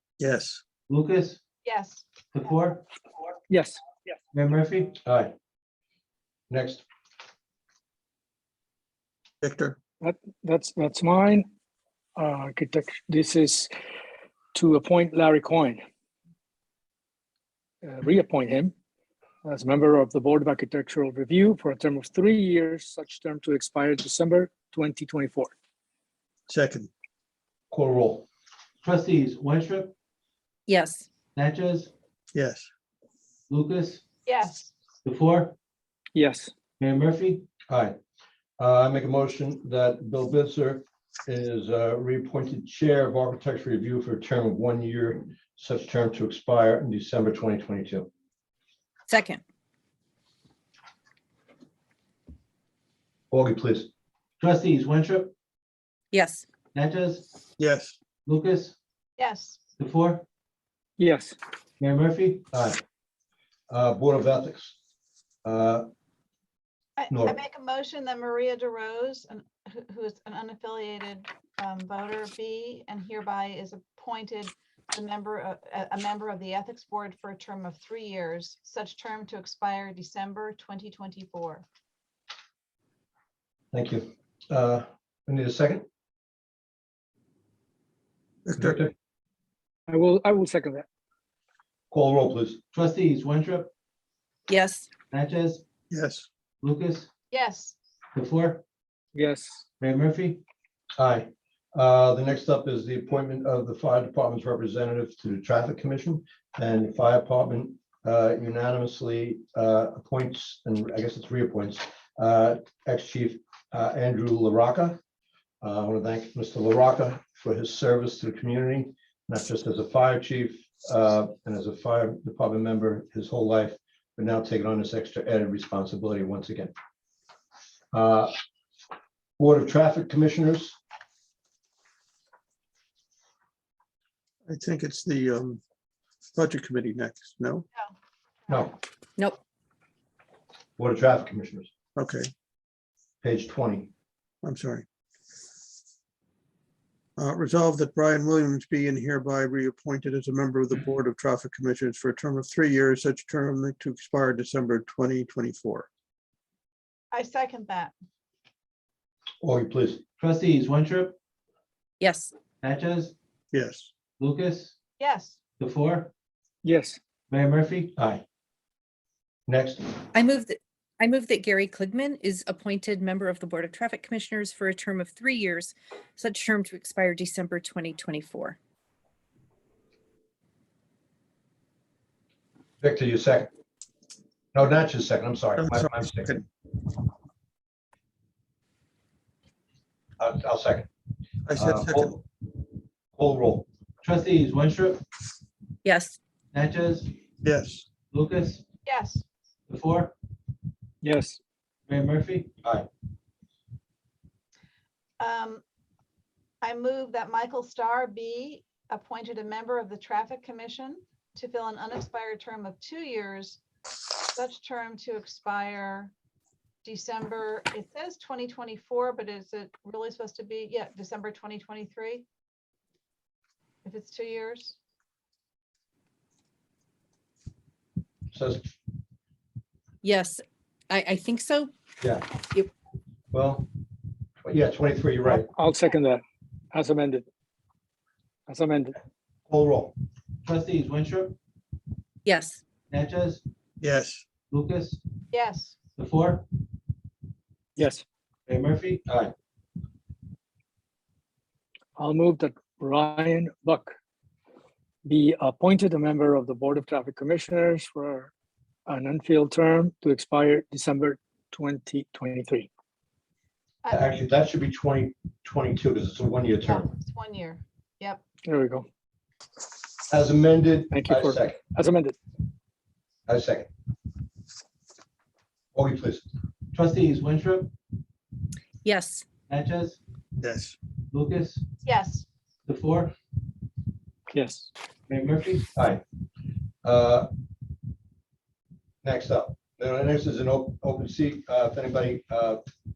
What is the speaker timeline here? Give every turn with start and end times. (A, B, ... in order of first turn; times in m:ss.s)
0:00.2-0:00.6 A
0:00.9-0:01.4 B
0:01.6-0:02.1 C
0:02.3-0:02.8 B
0:03.5-0:03.8 D
0:04.3-0:05.0 B
0:05.0-0:05.3 E
0:06.5-0:06.8 E
0:09.4-0:09.8 A
0:10.0-0:11.5 D
0:12.2-0:13.7 D
0:14.5-0:15.8 D
0:17.8-0:18.7 D
0:19.4-0:25.5 D
0:26.5-0:26.9 A
0:27.7-0:28.3 E
0:28.8-0:29.9 B
0:30.7-0:31.1 F
0:31.4-0:31.9 B
0:32.3-0:32.7 A
0:33.5-0:34.0 B
0:34.3-0:34.7 C
0:35.0-0:35.6 B
0:36.2-0:36.5 D
0:36.8-0:37.5 B
0:37.7-0:38.0 E
0:38.6-0:48.1 E
0:49.1-0:49.4 F
0:53.3-0:53.9 E
0:54.4-0:55.3 B
0:56.1-0:56.4 F
0:56.7-0:57.3 B
0:57.6-0:58.0 A
0:58.3-0:58.8 B
0:59.2-0:59.6 C
0:59.8-1:00.2 B
1:01.0-1:01.4 D
1:01.8-1:02.4 B
1:02.5-1:02.8 E
1:03.7-1:04.8 E
1:05.4-1:05.9 E
1:07.0-1:21.6 C
1:07.1-1:07.4 E
1:23.7-1:25.8 E
1:28.5-1:28.9 A
1:28.6-1:28.9 E
1:29.9-1:30.8 D
1:31.9-1:32.6 E
1:32.7-1:33.7 B
1:34.5-1:34.9 F
1:35.1-1:35.6 B
1:35.9-1:36.3 A
1:36.6-1:37.1 B
1:37.3-1:37.8 C
1:38.2-1:38.6 B
1:39.2-1:39.6 D
1:39.8-1:40.4 B
1:41.0-1:55.0 E
1:55.6-2:06.7 E
2:07.9-2:08.3 E
2:09.4-2:10.8 E
2:14.4-2:15.6 A
2:16.4-2:17.7 A
2:18.5-2:18.8 E
2:20.8-2:21.7 E
2:22.0-2:22.3 A
2:23.2-2:23.9 E
2:24.4-2:24.8 A
2:27.2-2:35.9 A
2:37.1-2:37.9 C
2:39.4-2:40.0 E
2:40.2-2:41.2 B
2:42.0-2:42.3 F
2:42.6-2:43.1 B
2:43.5-2:43.9 A
2:44.2-2:44.8 B
2:45.0-2:45.4 C
2:45.6-2:46.1 B
2:46.6-2:47.0 D
2:47.3-2:47.9 B
2:48.0-2:48.2 E
2:49.5-2:49.9 E
2:50.1-2:58.6 F
3:02.8-3:03.5 E
3:04.5-3:06.3 E
3:05.6-3:06.4 A
3:10.2-3:10.9 E
3:11.5-3:12.1 A
3:11.6-3:12.2 E
3:13.2-3:13.7 E
3:14.0-3:15.0 B
3:15.8-3:16.2 F
3:16.5-3:17.1 B
3:17.4-3:17.8 A
3:18.1-3:18.6 B
3:18.8-3:19.2 C
3:19.7-3:20.1 B
3:21.0-3:21.4 D
3:21.9-3:22.6 B
3:25.2-3:25.6 C
3:26.6-3:33.6 C
3:34.3-3:36.1 C
3:36.8-3:42.2 C
3:43.8-3:44.8 C
3:48.3-3:48.7 E
3:50.0-3:51.7 F
3:52.0-3:52.3 E
3:53.3-3:53.7 E
3:54.4-3:55.5 E
3:55.5-3:56.2 D
3:56.7-3:57.2 D
3:58.5-3:58.9 D
3:59.5-3:59.9 E
4:00.4-4:01.4 B
4:02.3-4:02.6 F
4:02.9-4:03.4 B
4:03.8-4:04.2 A
4:04.5-4:05.0 B
4:05.4-4:05.8 C
4:06.0-4:06.4 B
4:07.8-4:08.0 D
4:08.5-4:09.3 B
4:12.0-4:13.9 D
4:15.0-4:18.3 D
4:18.9-4:22.7 D
4:23.9-4:26.9 E
4:26.6-4:28.2 C
4:28.4-4:28.9 D
4:30.1-4:31.6 E
4:30.9-4:32.2 D
4:33.3-4:33.7 E
4:35.8-4:36.3 E
4:36.7-4:37.7 B
4:38.8-4:39.3 F
4:39.5-4:40.0 B
4:40.4-4:40.8 A
4:41.1-4:41.7 B
4:42.7-4:43.1 B
4:44.3-4:44.7 D
4:45.1-4:45.7 B
4:45.8-4:46.0 E
4:46.8-4:47.3 E
4:49.0-4:52.6 E